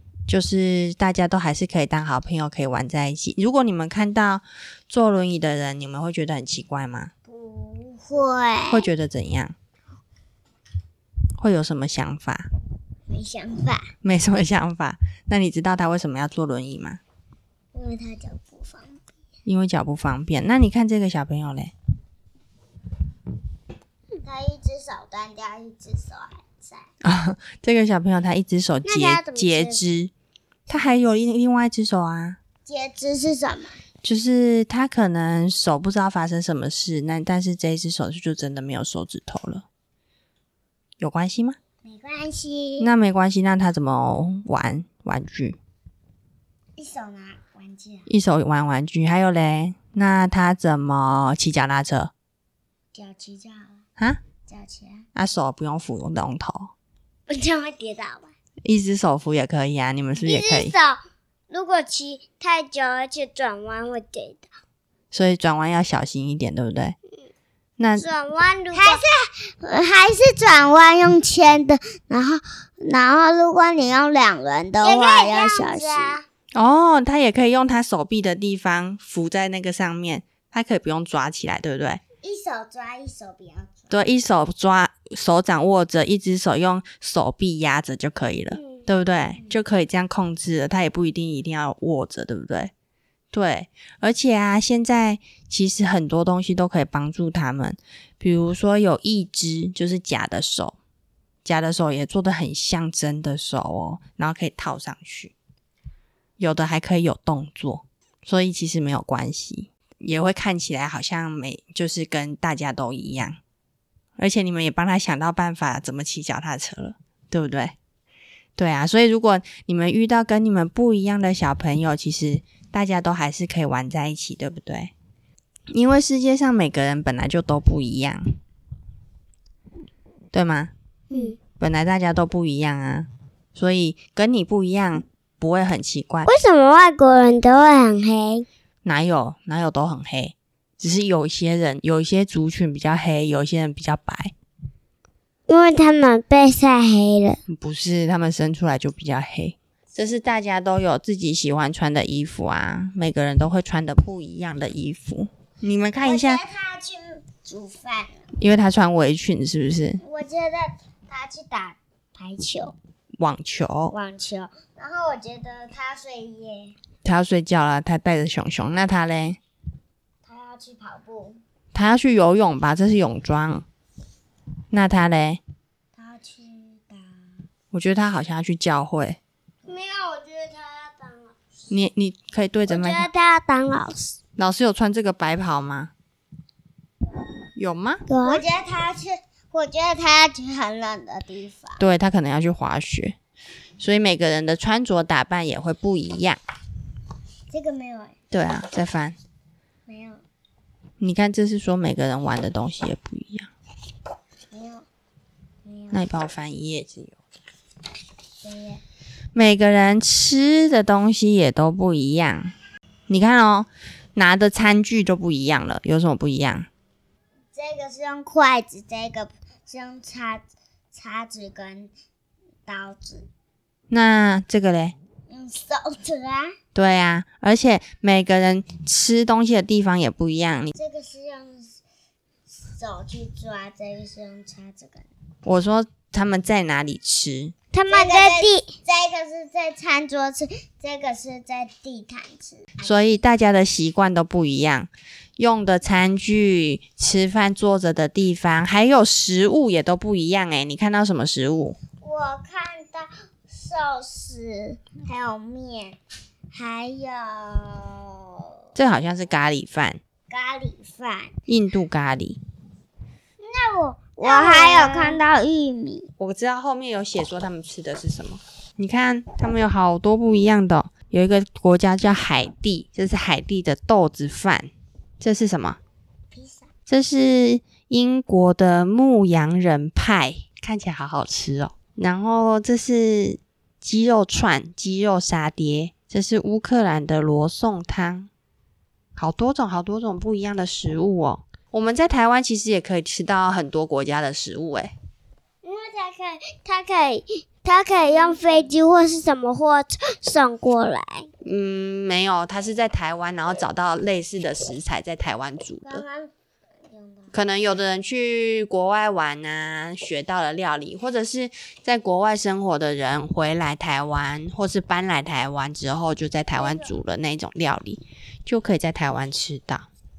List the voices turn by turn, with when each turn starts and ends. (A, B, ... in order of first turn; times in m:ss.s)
0:00.3-0:07.1 A
0:07.3-0:08.9 B
0:08.7-0:09.6 A
0:11.4-0:12.5 A
0:13.1-0:13.9 B
0:14.0-0:17.0 A
0:17.7-0:19.0 B
0:19.4-0:21.7 A
0:24.1-0:26.8 B
0:27.0-0:30.1 A
0:28.9-0:29.8 B
0:29.1-0:29.6 C
0:30.7-0:32.4 A
0:32.7-0:33.8 B
0:34.0-0:39.6 A
0:41.0-0:41.6 A
0:41.8-0:42.9 B
0:42.8-0:45.6 A
0:46.8-0:48.1 B
0:48.1-0:52.1 A
0:52.9-0:53.8 B
0:54.5-0:55.0 B
0:55.2-0:56.7 A
0:57.3-0:58.3 B
0:58.6-1:00.7 A
1:00.2-1:01.0 B
1:01.5-1:04.0 B
1:03.2-1:04.4 C
1:05.1-1:07.0 A
1:07.8-1:08.0 A
1:08.0-1:09.5 C
1:08.7-1:09.0 B
1:09.7-1:16.2 B
1:14.8-1:16.2 C
1:16.6-1:22.0 A
1:22.2-1:23.9 B
1:23.9-1:32.7 A
1:33.3-1:40.8 A
1:41.4-1:45.3 A
1:46.4-1:53.4 A
1:54.2-1:57.8 A
1:58.6-2:04.9 A
2:05.7-2:08.2 A
2:10.3-2:10.7 A
2:11.1-2:11.4 C
2:11.5-2:16.3 A
2:16.3-2:18.5 C
2:18.8-2:24.3 A
2:25.5-2:27.4 C
2:27.5-2:36.4 A
2:36.0-2:38.3 B
2:38.4-2:40.0 A
2:40.0-2:42.8 B
2:43.2-2:43.9 A
2:43.9-2:46.8 B
2:47.0-2:49.4 A
2:50.2-2:51.4 B
2:51.7-2:53.7 A
2:54.7-2:55.4 A
2:56.0-2:57.2 B
2:57.7-2:59.2 A
2:59.7-3:01.3 B
3:01.7-3:03.1 A
3:02.7-3:04.2 C
3:04.4-3:05.9 A
3:07.6-3:08.0 A
3:08.1-3:08.4 C
3:08.2-3:11.8 B
3:11.8-3:13.2 A
3:13.8-3:16.4 A
3:17.5-3:18.2 B
3:18.3-3:19.2 A
3:19.9-3:20.2 B
3:21.0-3:23.5 A
3:24.5-3:24.9 B
3:25.6-3:26.1 B
3:25.9-3:27.2 A
3:28.4-3:28.8 B
3:29.4-3:32.5 A
3:33.1-3:36.7 A
3:37.5-3:41.9 B
3:42.7-3:43.3 B
3:43.9-3:45.0 A
3:45.3-3:46.5 B
3:46.8-3:50.7 A
3:50.8-3:51.8 B
3:52.7-3:55.1 B
3:55.4-3:57.6 A
3:57.7-3:58.8 C
3:57.9-4:03.2 B
4:02.8-4:11.8 A
4:12.0-4:16.0 B
4:16.5-4:18.4 B
4:18.8-4:20.0 A
4:20.3-4:21.3 B
4:21.5-4:22.4 A
4:23.4-4:26.1 B
4:24.2-4:25.2 C
4:24.2-4:25.1 A
4:26.2-4:35.8 A
4:36.4-4:36.7 B
4:36.9-4:48.3 A
4:49.2-4:54.9 A
4:55.6-4:57.0 B
4:56.9-5:01.1 C
4:58.0-4:58.8 B
5:00.8-5:01.2 B
5:01.4-5:06.0 A
5:05.8-5:06.3 B
5:06.9-5:07.4 B
5:07.3-5:19.9 A
5:16.6-5:16.9 B